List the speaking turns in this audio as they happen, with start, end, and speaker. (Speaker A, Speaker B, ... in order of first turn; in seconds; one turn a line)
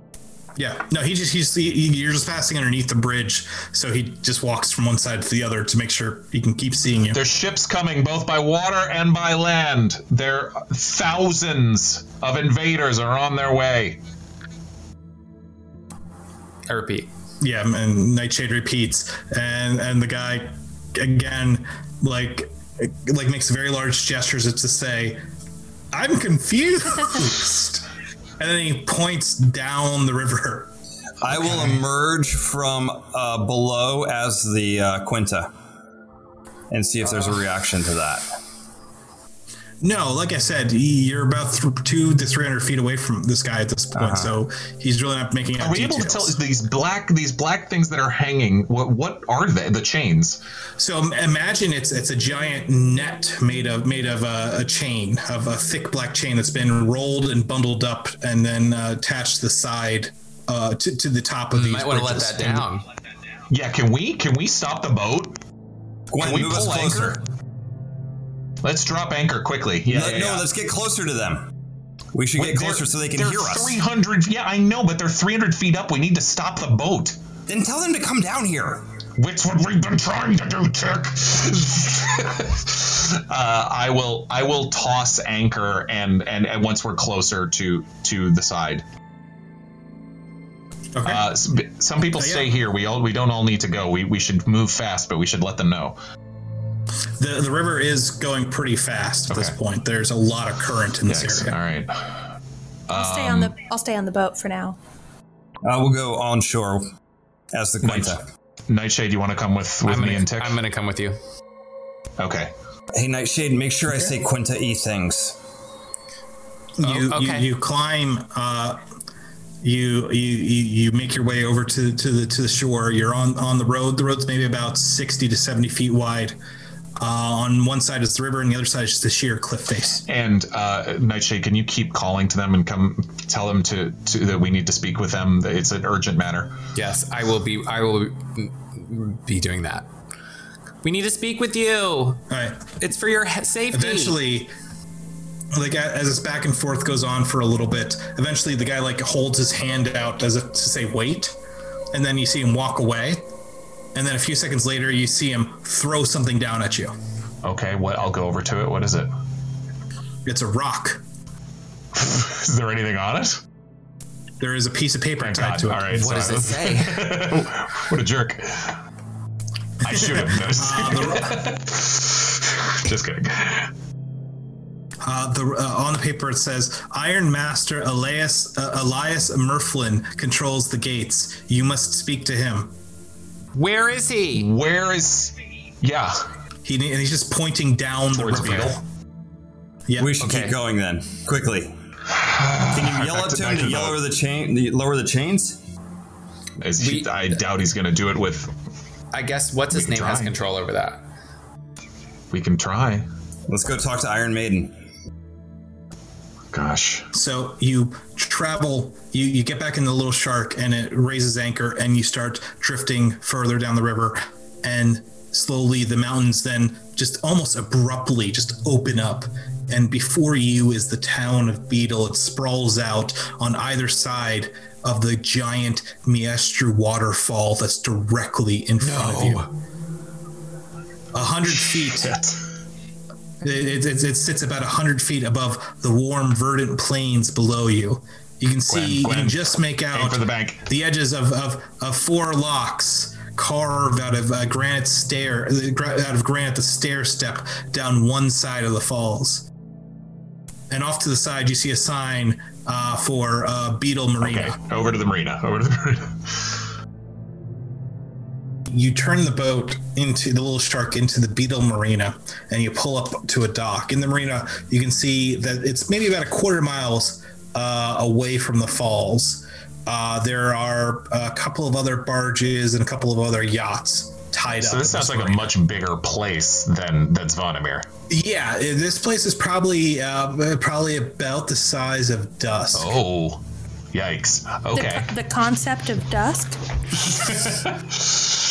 Speaker A: 0.6-7.2
Speaker B: 7.1-14.0
Speaker C: 16.7-17.1
Speaker A: 17.4-25.2
Speaker A: 25.9-27.9
Speaker A: 28.4-30.7
Speaker D: 31.2-35.5
Speaker A: 31.3-31.8
Speaker D: 36.7-38.3
Speaker A: 39.8-46.4
Speaker D: 44.0-44.3
Speaker B: 45.6-50.4
Speaker A: 50.8-62.7
Speaker C: 61.5-62.8
Speaker B: 63.5-65.4
Speaker D: 66.1-67.2
Speaker B: 66.2-67.2
Speaker B: 68.6-70.5
Speaker D: 69.9-71.5
Speaker D: 72.1-73.8
Speaker B: 72.4-77.2
Speaker D: 77.5-78.8
Speaker B: 79.2-88.8
Speaker A: 91.0-91.2
Speaker B: 91.0-96.0
Speaker A: 92.2-92.5
Speaker A: 97.2-101.6
Speaker B: 99.3-99.5
Speaker B: 101.1-102.3
Speaker B: 102.9-103.5
Speaker E: 102.9-104.8
Speaker D: 105.6-106.9
Speaker D: 107.5-108.2
Speaker B: 107.8-110.6
Speaker C: 109.8-111.2
Speaker B: 112.2-112.5
Speaker D: 112.9-115.4
Speaker A: 116.8-118.8
Speaker C: 116.8-117.5
Speaker A: 119.6-126.4
Speaker A: 127.0-130.0
Speaker B: 130.1-136.5
Speaker C: 136.8-139.9
Speaker C: 140.8-142.2
Speaker A: 142.3-142.7
Speaker C: 142.8-144.2
Speaker A: 143.7-144.5
Speaker A: 145.5-151.4
Speaker A: 151.9-153.2
Speaker A: 153.9-156.9
Speaker B: 157.4-159.1
Speaker A: 160.2-161.0
Speaker B: 161.9-163.4
Speaker A: 164.4-166.1
Speaker B: 165.2-168.8
Speaker C: 165.9-167.2
Speaker B: 169.8-173.7
Speaker A: 169.8-171.5
Speaker A: 175.0-182.7
Speaker C: 183.5-184.5
Speaker B: 184.3-186.2
Speaker A: 186.7-188.8
Speaker B: 188.1-188.8
Speaker C: 188.4-188.7
Speaker A: 189.9-190.1
Speaker D: 190.0-191.7
Speaker C: 190.2-190.6
Speaker B: 192.2-194.0
Speaker D: 192.7-195.6
Speaker B: 196.6-198.5
Speaker C: 196.8-197.1
Speaker C: 199.1-201.0
Speaker B: 199.7-200.3
Speaker B: 202.3-203.1
Speaker D: 203.5-204.7
Speaker B: 206.5-207.1
Speaker A: 207.1-229.5
Speaker C: 228.8-229.5
Speaker A: 231.1-232.2
Speaker B: 231.5-232.4
Speaker A: 233.4-249.5
Speaker B: 238.7-240.6
Speaker A: 250.7-254.6
Speaker B: 254.2-256.6
Speaker A: 258.7-275.5
Speaker B: 274.5-277.9
Speaker A: 278.1-283.0
Speaker B: 282.8-283.4
Speaker B: 283.9-285.1
Speaker E: 284.7-286.6
Speaker B: 287.0-288.1